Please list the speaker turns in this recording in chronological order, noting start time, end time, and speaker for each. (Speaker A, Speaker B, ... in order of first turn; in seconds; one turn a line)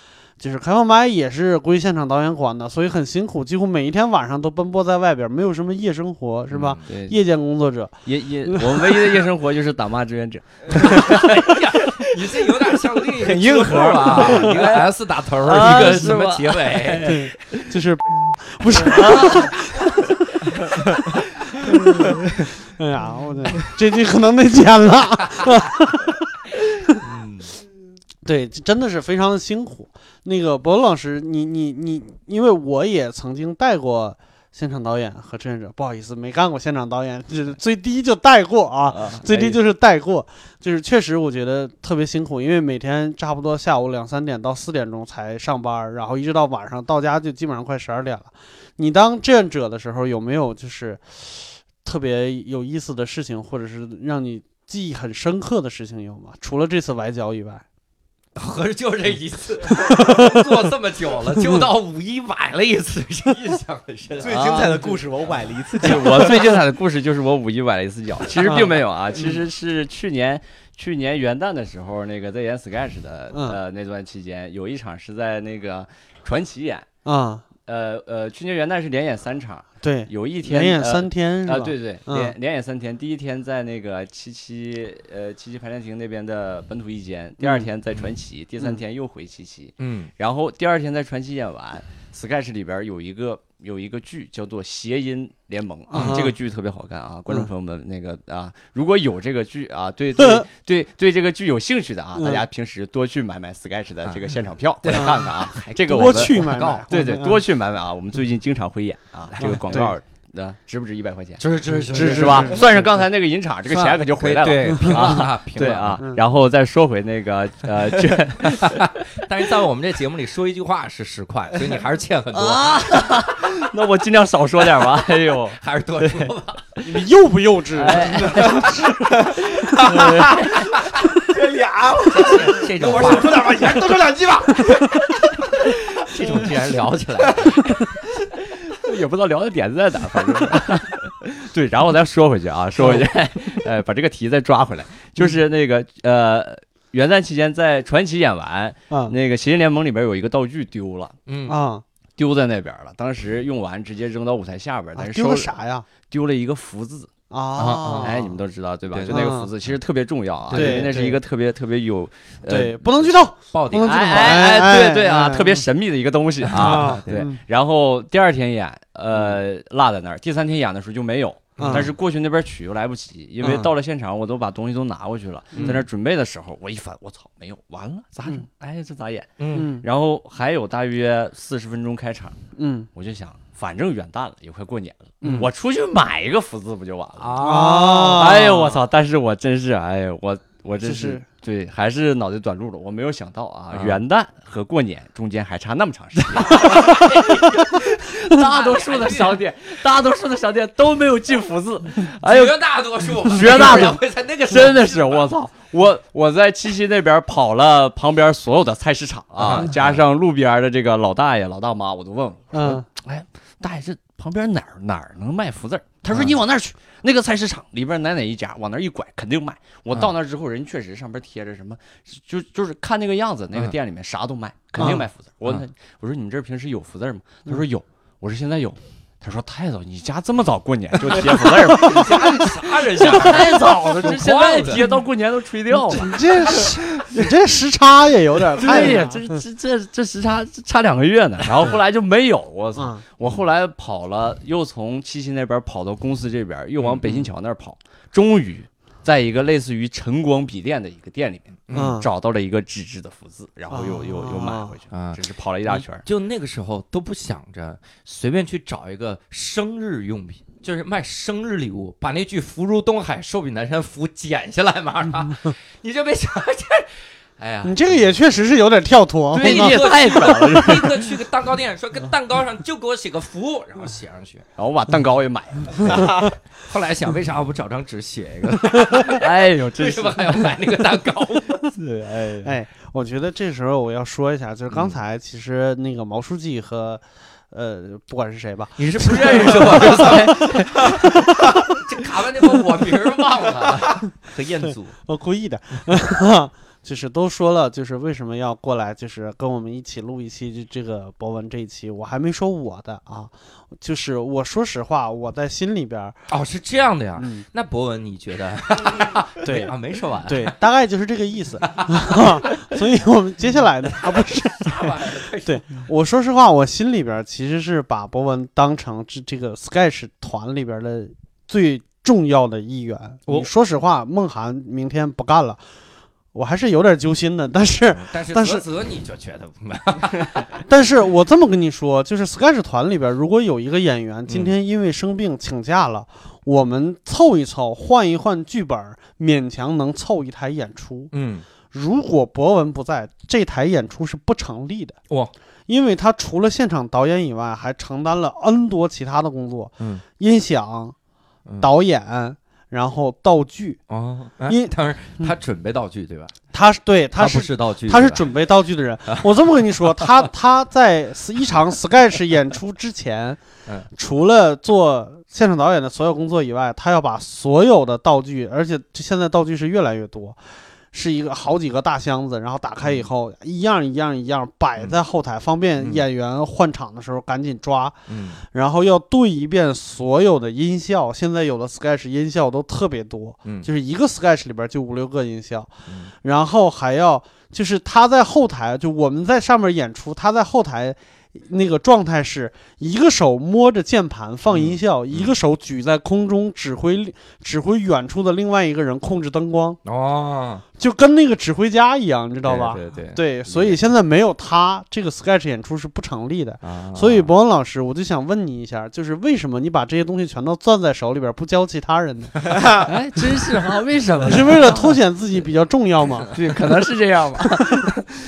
Speaker A: 0.4-9.1
Speaker B: 6.5-6.8
Speaker C: 6.9-7.2
Speaker C: 8.0-12.1
Speaker B: 10.8-17.2
Speaker C: 13.2-17.7
Speaker A: 17.0-20.1
Speaker C: 18.8-19.6
Speaker A: 21.7-22.0
Speaker D: 21.9-22.5
Speaker A: 22.7-26.2
Speaker B: 27.0-27.4
Speaker A: 28.2-57.6
Speaker C: 38.9-39.6
Speaker B: 58.3-65.0
Speaker D: 64.2-66.3
Speaker C: 64.3-64.8
Speaker C: 65.8-76.9
Speaker A: 68.4-69.4
Speaker A: 73.3-73.6
Speaker A: 77.0-77.4
Speaker C: 77.6-118.9
Speaker A: 79.8-82.3
Speaker A: 87.4-87.7
Speaker B: 89.8-90.1
Speaker A: 95.9-96.3
Speaker B: 95.9-96.2
Speaker A: 100.2-100.5
Speaker A: 102.1-102.4
Speaker B: 104.8-106.8
Speaker A: 104.9-105.2
Speaker A: 105.9-107.4
Speaker B: 109.4-109.8
Speaker A: 109.4-109.9
Speaker B: 111.4-112.9
Speaker A: 111.7-112.7
Speaker B: 113.7-116.0
Speaker B: 118.7-123.2
Speaker C: 122.3-126.3
Speaker B: 125.6-126.8
Speaker A: 126.8-130.3
Speaker C: 127.7-128.7
Speaker B: 128.3-128.7
Speaker C: 129.7-130.7
Speaker B: 130.8-131.0
Speaker D: 131.1-135.1
Speaker B: 132.1-133.7
Speaker B: 135.7-137.7
Speaker D: 136.1-136.5
Speaker D: 137.2-137.6
Speaker C: 138.6-151.1
Speaker A: 142.8-143.1
Speaker A: 148.9-149.1
Speaker B: 151.3-151.6
Speaker A: 151.5-151.8
Speaker C: 152.2-155.5
Speaker A: 154.9-155.9
Speaker C: 156.1-157.1
Speaker A: 157.3-158.3
Speaker B: 157.6-158.1
Speaker C: 157.9-163.1
Speaker B: 158.9-159.2
Speaker A: 159.1-159.5
Speaker B: 160.5-160.9
Speaker A: 160.5-161.2
Speaker A: 162.4-165.7
Speaker B: 163.5-164.4
Speaker C: 163.8-182.4
Speaker B: 166.5-167.0
Speaker A: 166.5-167.4
Speaker B: 171.6-171.9
Speaker A: 171.6-171.9
Speaker A: 173.4-173.7
Speaker A: 175.5-175.8
Speaker B: 175.6-175.8
Speaker B: 179.4-179.7
Speaker A: 179.5-179.8
Speaker A: 182.6-182.9
Speaker C: 182.9-202.6
Speaker A: 185.2-185.5
Speaker B: 187.2-188.4
Speaker A: 187.4-188.8
Speaker A: 190.8-191.2
Speaker B: 193.7-194.0
Speaker B: 196.3-199.4
Speaker B: 202.1-205.3
Speaker C: 203.2-236.7
Speaker B: 209.4-210.0
Speaker A: 212.5-212.8
Speaker A: 224.8-225.0
Speaker B: 231.5-234.8
Speaker A: 231.6-232.5
Speaker A: 233.1-233.8
Speaker A: 235.9-239.4
Speaker B: 236.5-236.8
Speaker C: 238.6-256.0
Speaker A: 242.7-243.0
Speaker B: 246.8-247.2
Speaker B: 251.7-252.0
Speaker A: 251.7-252.1
Speaker A: 253.7-254.7
Speaker B: 254.9-268.0
Speaker A: 267.6-270.3
Speaker C: 269.3-271.0
Speaker B: 269.4-274.4
Speaker C: 274.6-276.1
Speaker B: 275.8-281.7
Speaker C: 279.1-280.5
Speaker C: 281.7-282.5
Speaker A: 282.4-291.5
Speaker B: 288.8-294.9
Speaker C: 289.8-290.2
Speaker A: 295.1-306.2
Speaker B: 306.3-310.5
Speaker A: 307.2-307.4
Speaker A: 309.4-325.6
Speaker B: 311.7-312.5
Speaker B: 314.0-315.9
Speaker A: 326.3-328.6
Speaker B: 327.9-330.6
Speaker A: 330.6-341.1
Speaker B: 334.3-334.5
Speaker B: 341.1-341.4
Speaker A: 341.7-345.0
Speaker A: 345.7-350.9
Speaker A: 351.6-353.8
Speaker B: 353.9-356.3
Speaker A: 354.5-355.3
Speaker A: 356.5-363.4
Speaker B: 357.1-358.3
Speaker A: 363.9-370.4
Speaker A: 370.9-377.9
Speaker B: 372.8-373.1
Speaker B: 375.8-376.0
Speaker B: 378.1-378.4
Speaker A: 378.5-399.8
Speaker B: 394.5-395.3
Speaker B: 399.8-400.6
Speaker A: 400.8-412.8
Speaker B: 402.4-403.7
Speaker B: 406.6-407.3
Speaker C: 412.8-414.9
Speaker A: 414.2-416.3
Speaker C: 416.3-417.9